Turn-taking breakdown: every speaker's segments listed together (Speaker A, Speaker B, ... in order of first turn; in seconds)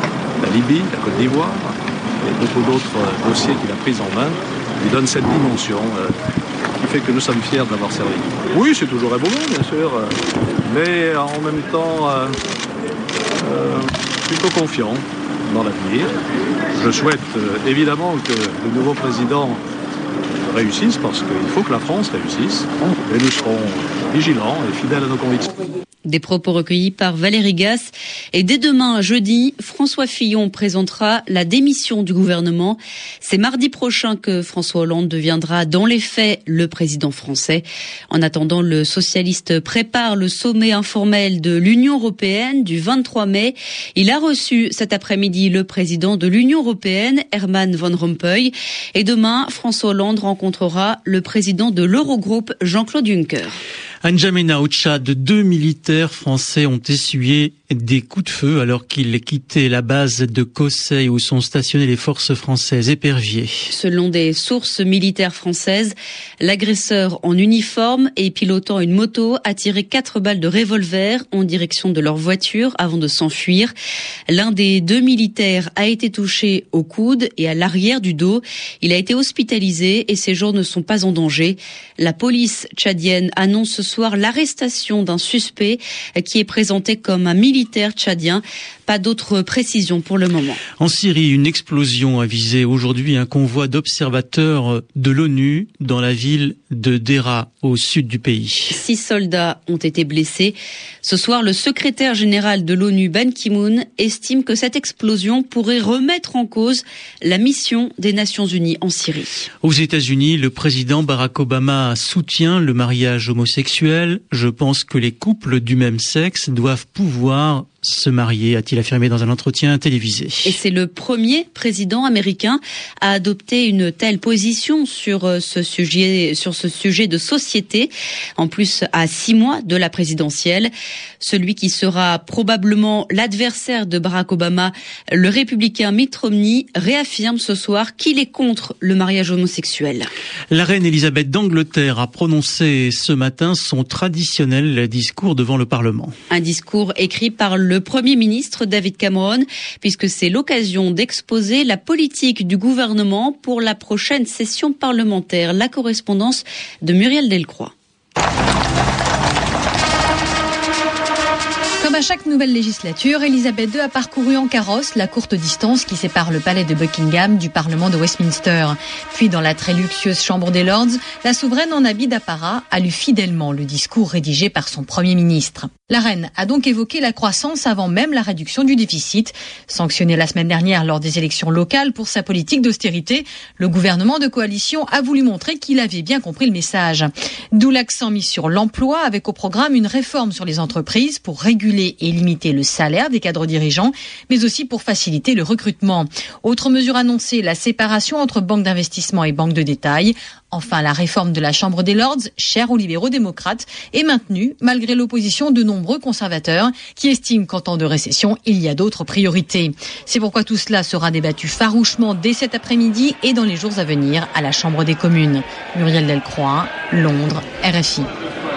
Speaker A: 0.5-1.2, 2.3-4.1, 4.8-6.0, 6.9-9.9, 10.7-11.9, 13.5-13.9, 14.5-14.8, 15.5-16.0, 16.8-19.3, 20.5-22.3, 23.1-24.7
Speaker B: 26.1-53.6, 63.7-73.7, 74.3-90.6, 98.7-109.5, 120.5-140.1, 146.3-157.7
Speaker C: 54.0-63.5, 90.8-98.8, 109.6-120.5, 140.5-146.2
Speaker D: 161.8-218.1